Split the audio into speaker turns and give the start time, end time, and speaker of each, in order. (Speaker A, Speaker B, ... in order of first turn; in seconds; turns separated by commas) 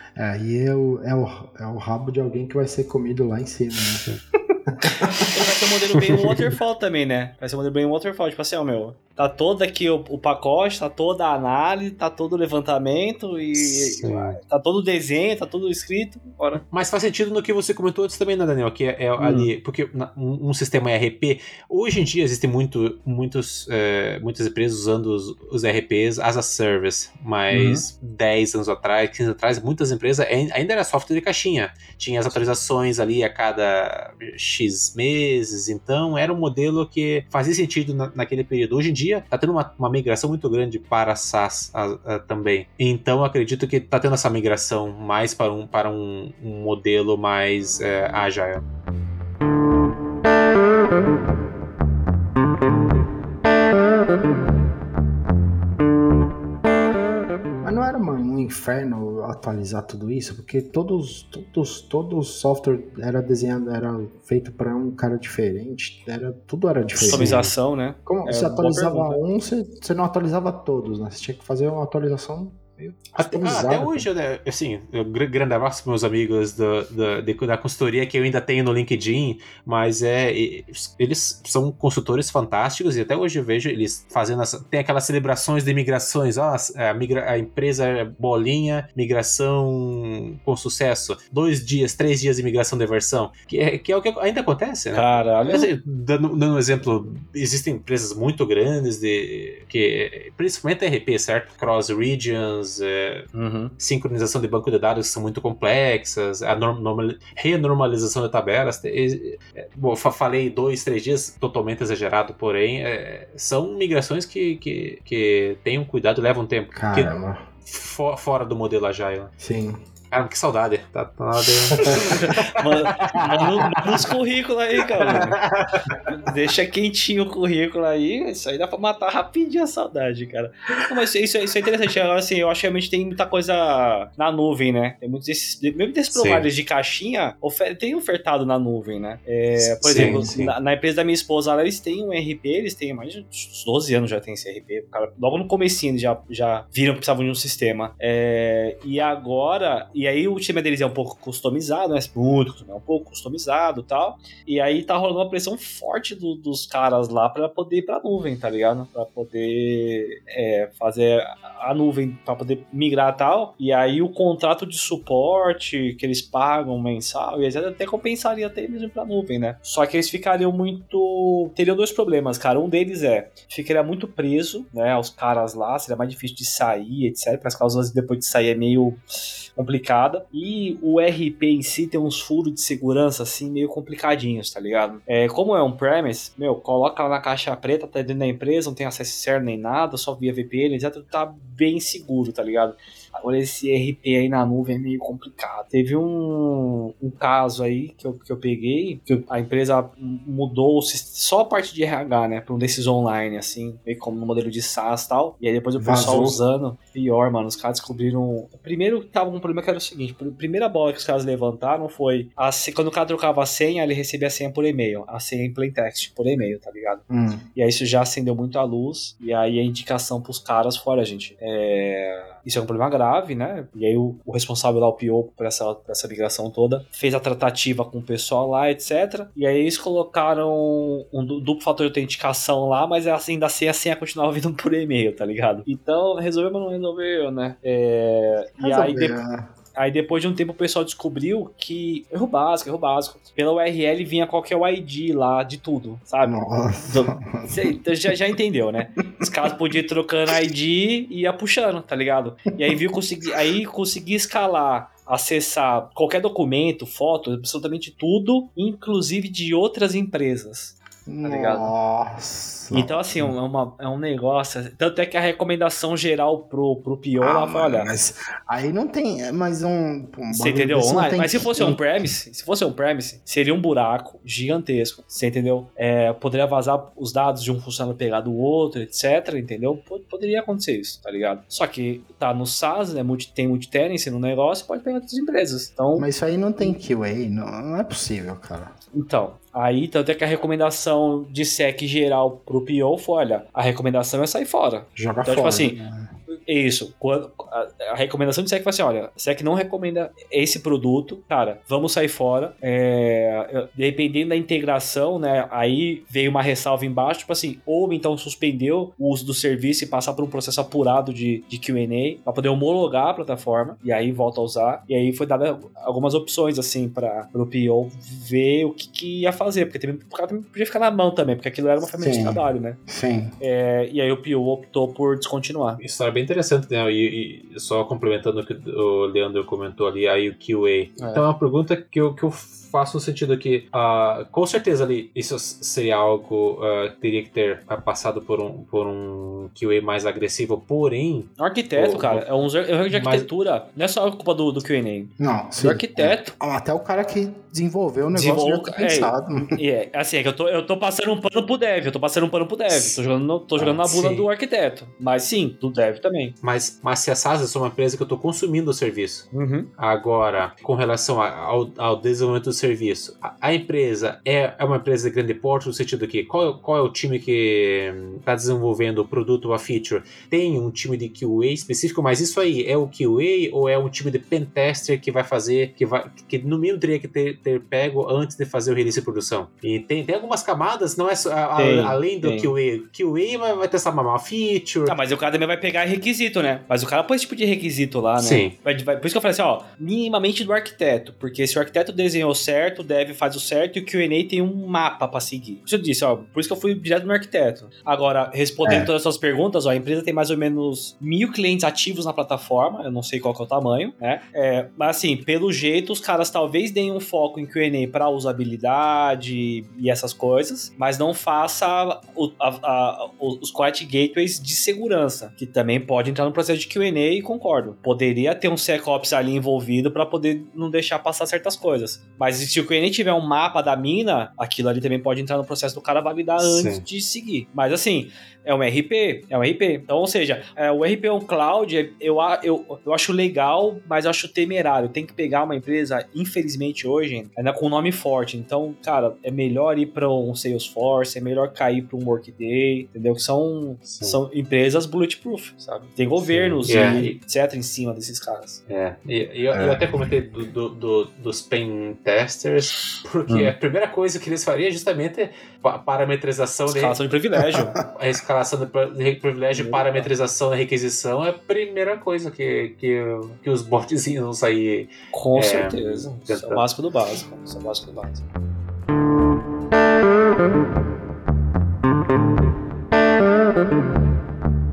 Speaker A: 0.1-4.0, Speaker A: 4.7-5.2, Speaker B: 5.1-16.6, Speaker C: 13.6-14.4, Speaker C: 16.5-48.6, Speaker B: 19.2-19.5, Speaker B: 27.5-27.8, Speaker A: 57.6-67.3, Speaker C: 67.0-67.5, Speaker B: 67.1-69.2, Speaker A: 68.0-74.1, Speaker C: 73.2-103.3, Speaker B: 94.9-95.7, Speaker B: 103.3-103.7, Speaker C: 103.8-117.1, Speaker A: 116.7-117.5, Speaker C: 117.7-119.3, Speaker A: 119.4-119.8, Speaker C: 120.1-124.0, Speaker B: 121.8-125.4, Speaker C: 125.0-125.9, Speaker B: 126.1-239.2, Speaker C: 136.1-136.5, Speaker A: 139.6-140.5, Speaker C: 139.9-140.2, Speaker A: 205.8-206.4, Speaker A: 217.1-217.4, Speaker A: 238.6-239.5, Speaker B: 239.7-261.7, Speaker A: 246.2-247.7, Speaker A: 249.2-249.5, Speaker A: 261.1-263.3, Speaker B: 262.7-267.9, Speaker A: 267.2-271.8, Speaker B: 270.3-286.1, Speaker A: 285.9-288.7, Speaker B: 288.9-295.8, Speaker A: 294.9-296.1, Speaker B: 296.3-322.8, Speaker A: 321.9-323.4, Speaker B: 323.4-325.8, Speaker C: 325.8-342.3, Speaker B: 331.0-331.2, Speaker B: 341.4-346.3, Speaker C: 342.9-343.3, Speaker A: 345.2-349.6, Speaker B: 348.1-356.3, Speaker A: 352.7-353.0, Speaker A: 353.6-354.2, Speaker C: 356.4-385.0, Speaker B: 359.3-359.7, Speaker B: 381.6-382.5, Speaker B: 384.9-448.6, Speaker C: 388.2-388.5, Speaker C: 426.4-426.8, Speaker C: 443.9-444.2, Speaker A: 446.5-447.1, Speaker C: 446.6-447.1, Speaker C: 448.7-457.0, Speaker A: 449.5-449.9, Speaker B: 453.3-453.5, Speaker B: 456.7-457.8, Speaker A: 457.4-457.8, Speaker C: 457.9-466.6, Speaker B: 459.5-460.1, Speaker B: 465.1-468.2